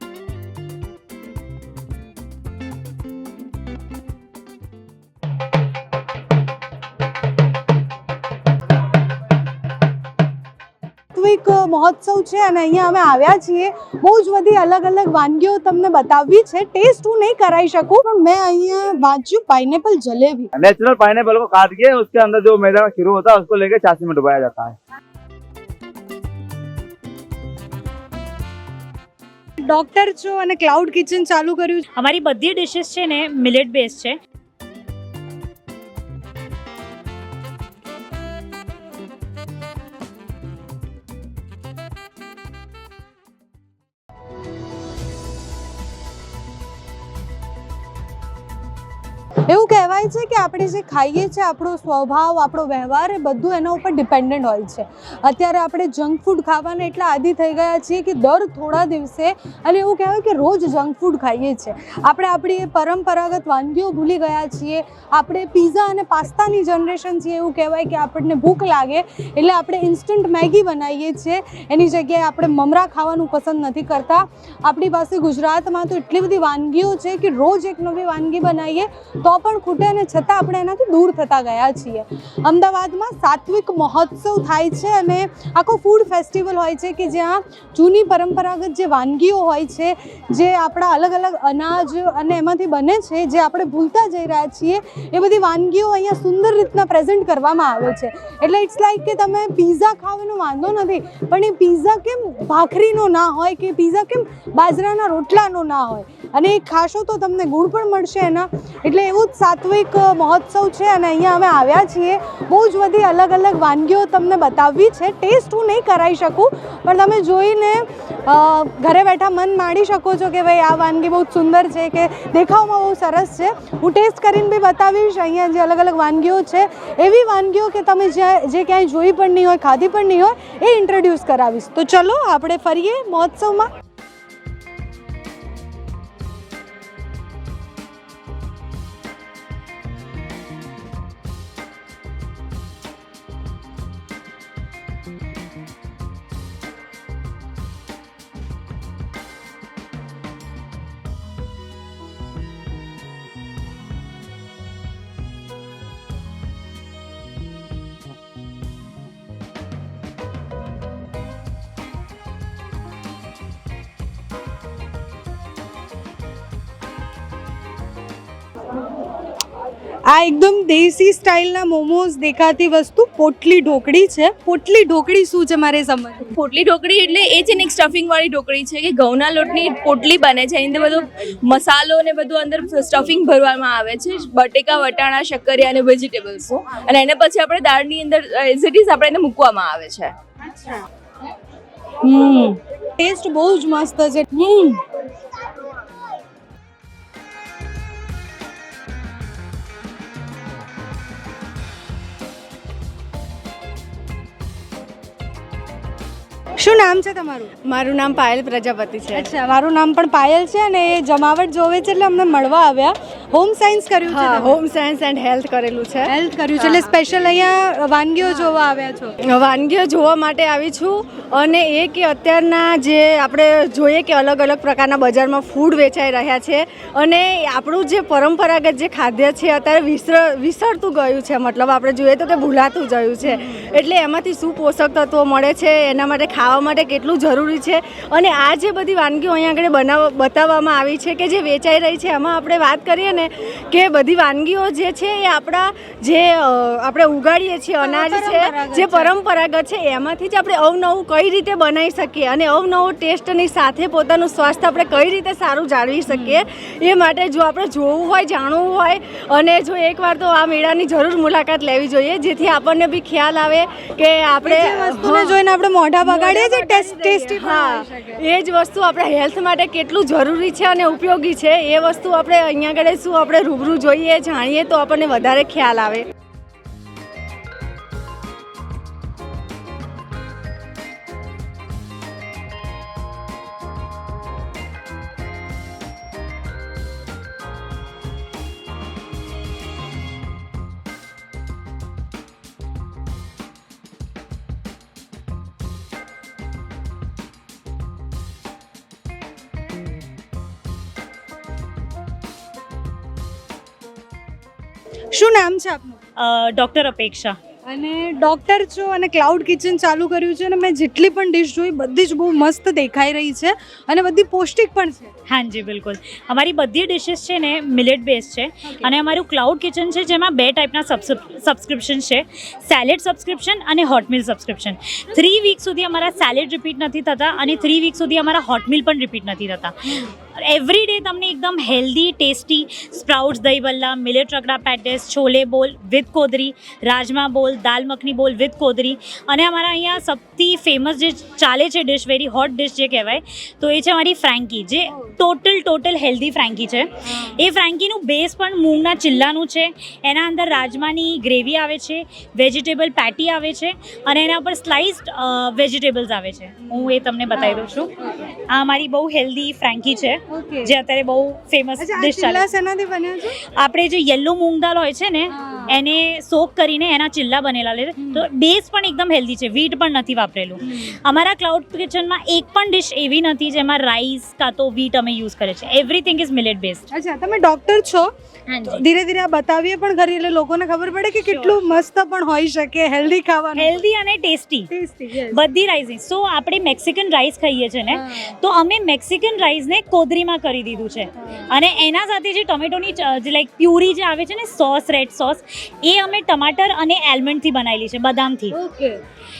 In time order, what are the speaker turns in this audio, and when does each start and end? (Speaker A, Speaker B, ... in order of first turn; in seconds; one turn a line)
Speaker A: 11.1-20.5
Speaker B: 20.6-24.7
Speaker A: 29.7-31.8
Speaker C: 32.0-34.2
Speaker A: 49.5-133.7
Speaker A: 170.1-176.3
Speaker D: 176.4-190.1
Speaker A: 190.4-190.8
Speaker A: 192.0-194.8
Speaker A: 206.6-207.5
Speaker E: 207.7-209.3
Speaker A: 209.1-214.6
Speaker E: 214.1-216.9
Speaker A: 216.1-219.1
Speaker E: 218.2-218.6
Speaker E: 219.3-265.4
Speaker A: 233.2-233.7
Speaker A: 247.8-249.1
Speaker A: 256.1-256.4
Speaker A: 264.4-268.2
Speaker E: 266.0-276.1
Speaker A: 305.1-306.0
Speaker C: 306.2-307.3
Speaker A: 307.7-315.1
Speaker C: 315.3-357.9
Speaker A: 356.7-358.2
Speaker C: 358.5-362.5
Speaker A: 360.3-360.7
Speaker A: 361.8-363.4
Speaker C: 363.6-376.9
Speaker A: 365.3-365.7
Speaker A: 368.0-368.2
Speaker A: 370.6-370.9
Speaker A: 376.9-378.1
Speaker C: 378.5-378.8
Speaker A: 378.6-383.8
Speaker C: 381.2-381.6
Speaker C: 383.6-384.7
Speaker A: 384.7-385.4
Speaker C: 385.3-398.5
Speaker A: 387.9-388.3
Speaker A: 391.2-391.5
Speaker A: 398.5-399.0